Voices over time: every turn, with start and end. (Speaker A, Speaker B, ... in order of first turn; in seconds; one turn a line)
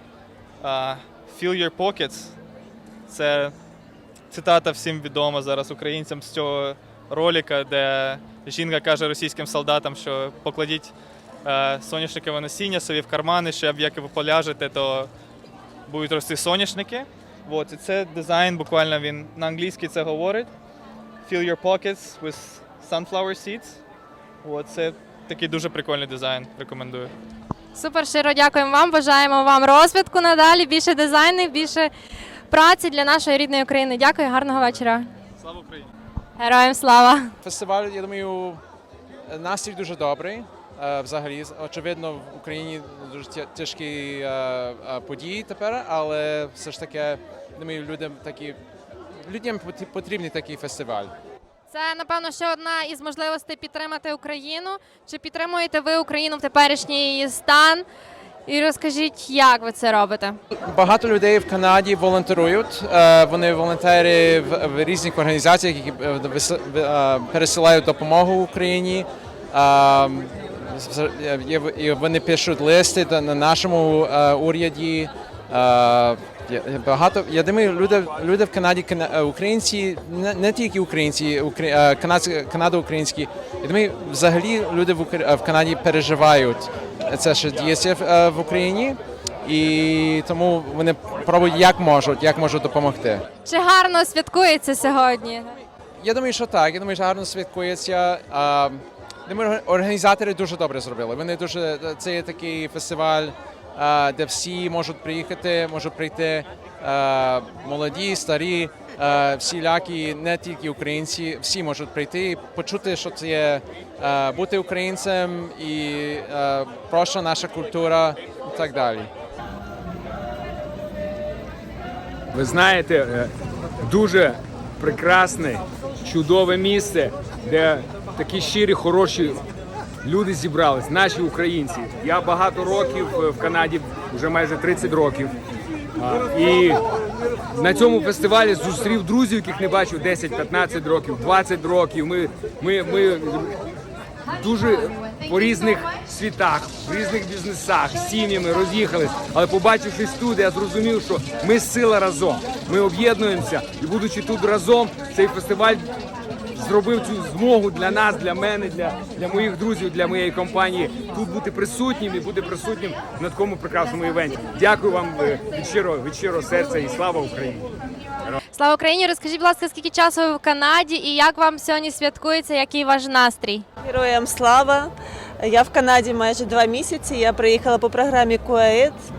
Speaker A: 0.6-2.3
Speaker A: 3.1-3.5
Speaker A: 4.3-10.8
Speaker B: 8.2-8.6
Speaker A: 11.5-15.1
Speaker A: 15.9-17.0
Speaker B: 16.9-18.1
Speaker A: 17.5-20.4
Speaker A: 21.3-22.2
Speaker B: 21.3-23.1
Speaker A: 23.0-23.7
Speaker A: 24.4-27.1
Speaker C: 27.7-31.9
Speaker C: 32.5-35.1
Speaker A: 35.5-35.8
Speaker C: 36.4-37.3
Speaker B: 37.4-38.6
Speaker B: 39.3-48.6
Speaker B: 49.3-51.1
Speaker C: 51.7-57.8
Speaker C: 58.5-60.4
Speaker B: 60.7-93.2
Speaker C: 93.4-95.6
Speaker B: 96.0-119.1
Speaker D: 122.3-129.4
Speaker D: 130.0-135.3
Speaker D: 136.0-136.8
Speaker D: 137.5-143.6
Speaker D: 144.3-155.9
Speaker D: 156.5-167.7
Speaker C: 168.5-173.6
Speaker E: 173.8-179.0